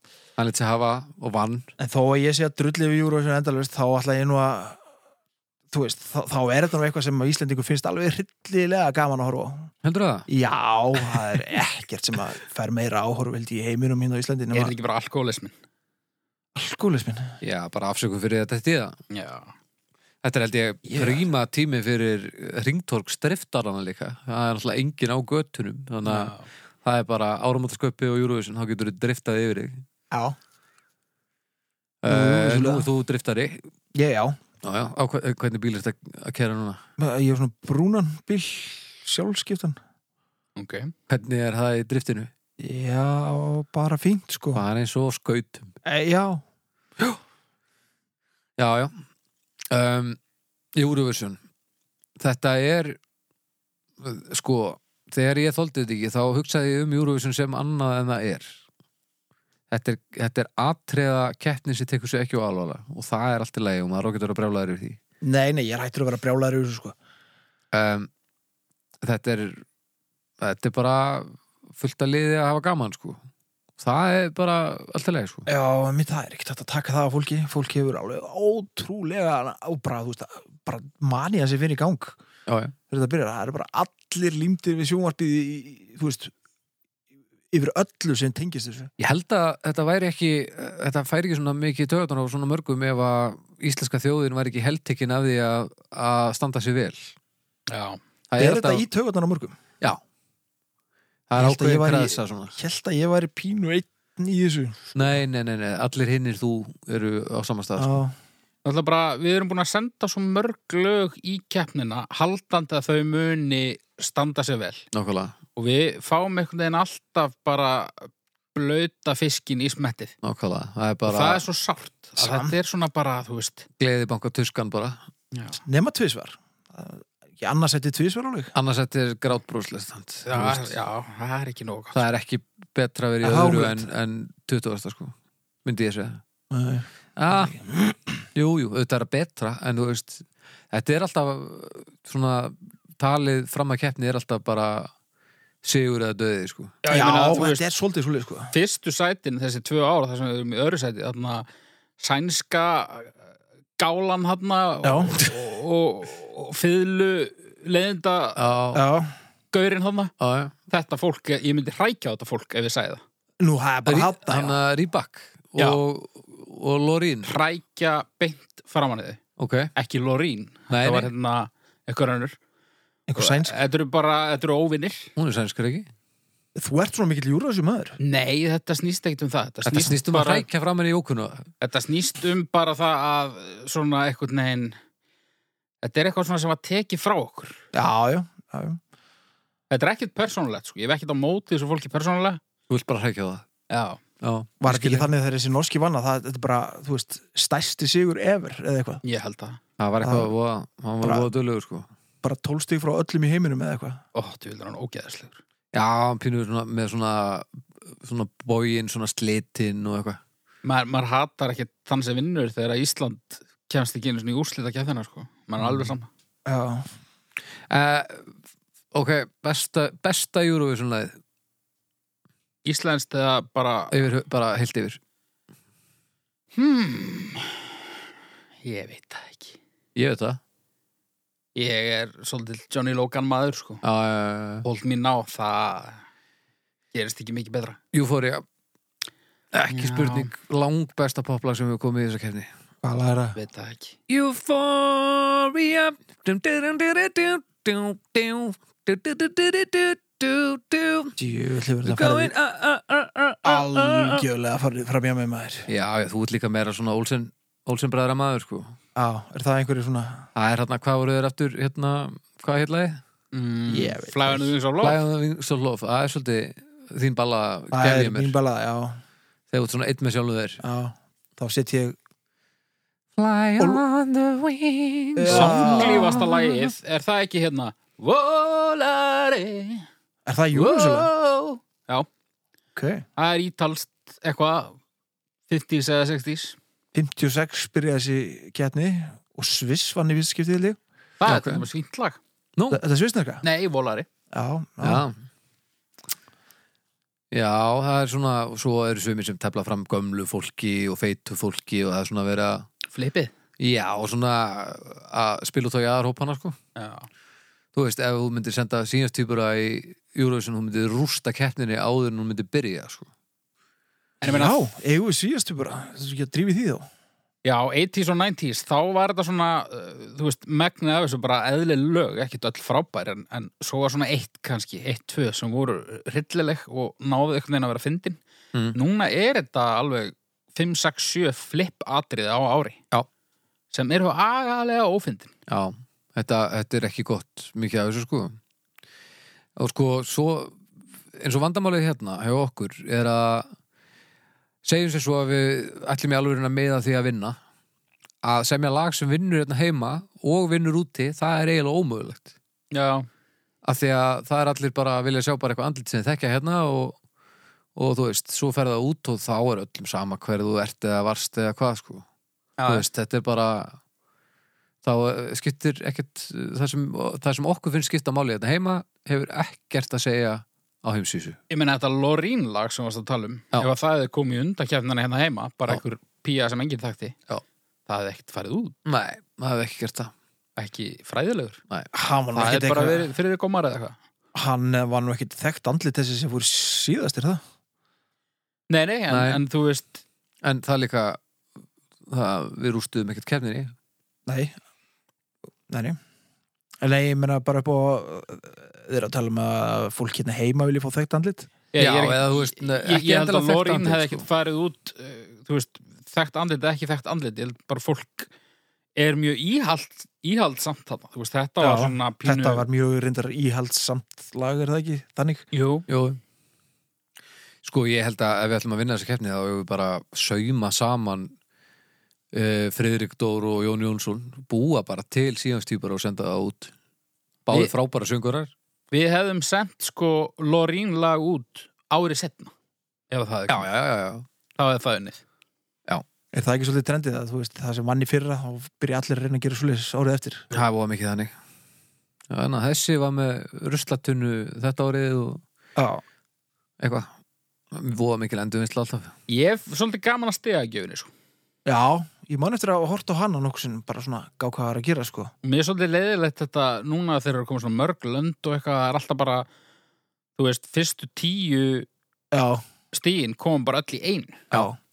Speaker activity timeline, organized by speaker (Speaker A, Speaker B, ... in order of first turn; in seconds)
Speaker A: 0.4-1.7, 9.8-10.3, 17.4-19.0, 20.2-29.8, 32.0-33.7, 34.6-36.8, 41.1-42.3, 44.5-45.7, 48.6-48.9, 49.7-50.2, 50.8-51.4, 52.2-53.0, 54.0-58.6, 59.7-65.0, 67.7-68.1, 69.0-69.6, 70.4-73.2, 73.8-75.5, 82.5-82.8, 89.0-97.1, 98.3-98.8, 101.3-102.5, 105.0-108.0, 114.9-115.3, 120.2-121.4, 123.8-125.0, 128.5-130.8, 131.9-135.1, 135.7-136.2, 137.2-137.7, 138.3-144.9, 145.6-146.8, 158.4-158.8, 160.2-160.5, 163.9-167.4, 169.4-169.7, 170.7-171.1, 175.2-175.9, 179.7-181.5, 192.7-193.4, 194.2-195.1, 199.8-201.9, 205.7-207.5, 208.0-210.2, 215.6-215.9, 217.7-218.3, 218.9-221.2, 223.9-225.0, 230.0-230.4, 233.8-234.7, 237.9-238.4, 239.5-242.5, 244.1-251.2, 251.8-254.2, 255.7-258.8, 260.4-263.0, 264.8-268.4, 269.5-270.6, 273.2-276.7, 291.2-291.6, 292.6-292.8, 294.8-295.1, 297.3-302.7, 303.6-306.6, 307.7-313.1, 335.5-338.4, 339.6-340.6, 341.1-343.5, 344.6-347.4, 348.2-352.3, 353.6-357.0, 357.8-362.1, 362.7-363.8, 364.8-371.4, 378.9-380.1, 389.1-389.4, 390.4-391.2, 392.1-393.7, 401.8-404.2, 415.9-416.2, 417.6-421.3, 422.3-426.7, 427.5-428.5, 433.5-434.3, 440.5-441.3, 442.3-445.4, 446.8-447.1, 447.7-449.1
Speaker B: 1.8-4.8, 5.7-9.7, 10.3-14.8, 16.6-17.4, 20.9-21.3, 30.1-30.4, 32.1-32.9, 33.9-34.4, 37.0-39.8, 42.6-44.6, 45.9-46.4, 65.2-67.0, 75.5-82.2, 82.9-86.3, 87.5-88.9, 98.4-99.6, 101.4-105.2, 107.8-108.2, 122.2-122.5, 125.7-128.5, 133.2-133.9, 136.5-137.9, 146.9-148.5, 154.8-155.2, 158.7-159.1, 163.4-164.6, 173.1-173.6, 176.6-178.0, 187.7-188.8, 194.6-199.0, 200.0-200.3, 201.0-201.3, 202.2-204.0, 216.5-216.9, 242.8-243.4, 251.2-252.3, 253.4-255.7, 259.0-260.3, 263.7-264.5, 267.7-269.0, 270.6-272.0, 273.6-273.8, 275.2-276.3, 280.3-281.1, 282.8-283.0, 286.9-290.8, 292.7-293.4, 294.3-295.1, 314.2-316.9, 381.9-383.1, 384.3-387.4, 394.3-394.6, 395.7-396.0, 396.8-401.5, 411.6-415.4, 436.3-440.5, 445.8-446.0, 451.7-455.3, 462.3-462.6, 464.5-464.8
Speaker C: 14.5-15.5, 19.1-19.5, 26.0-26.5, 40.6-40.9, 97.7-98.0, 108.6-114.9, 115.6-120.1, 121.1-123.7, 125.3-125.6, 130.3-132.1, 146.8-147.6, 148.5-151.5, 152.0-153.2, 153.8-158.4, 159.5-160.1, 160.7-163.0, 167.2-169.2, 169.8-172.4, 173.2-175.1, 178.0-180.5, 181.6-184.8, 185.8-187.6, 189.7-192.4, 193.7-194.0, 199.0-199.6, 204.1-205.4, 210.7-216.1, 222.7-224.0, 226.6-227.8, 228.6-229.6, 231.6-233.8, 234.6-236.0, 236.9-237.8, 239.7-240.3, 243.4-244.0, 263.3-265.0, 275.3-279.9, 280.5-282.1, 283.2-284.8, 285.5-286.6, 291.2-292.2, 293.4-294.1, 302.9-303.3, 306.8-307.1, 314.2-314.6, 317.4-328.2, 328.7-332.8, 333.7-335.3, 352.7-353.1, 362.6-362.9, 371.5-377.2, 377.9-378.8, 380.6-381.6, 382.3-384.0, 388.7-390.0, 401.7-408.3, 409.0-412.6, 415.5-415.9, 428.9-432.5, 433.1-433.7, 434.6-435.2, 449.3-451.1, 455.4-459.5, 460.4-461.9, 462.9-464.5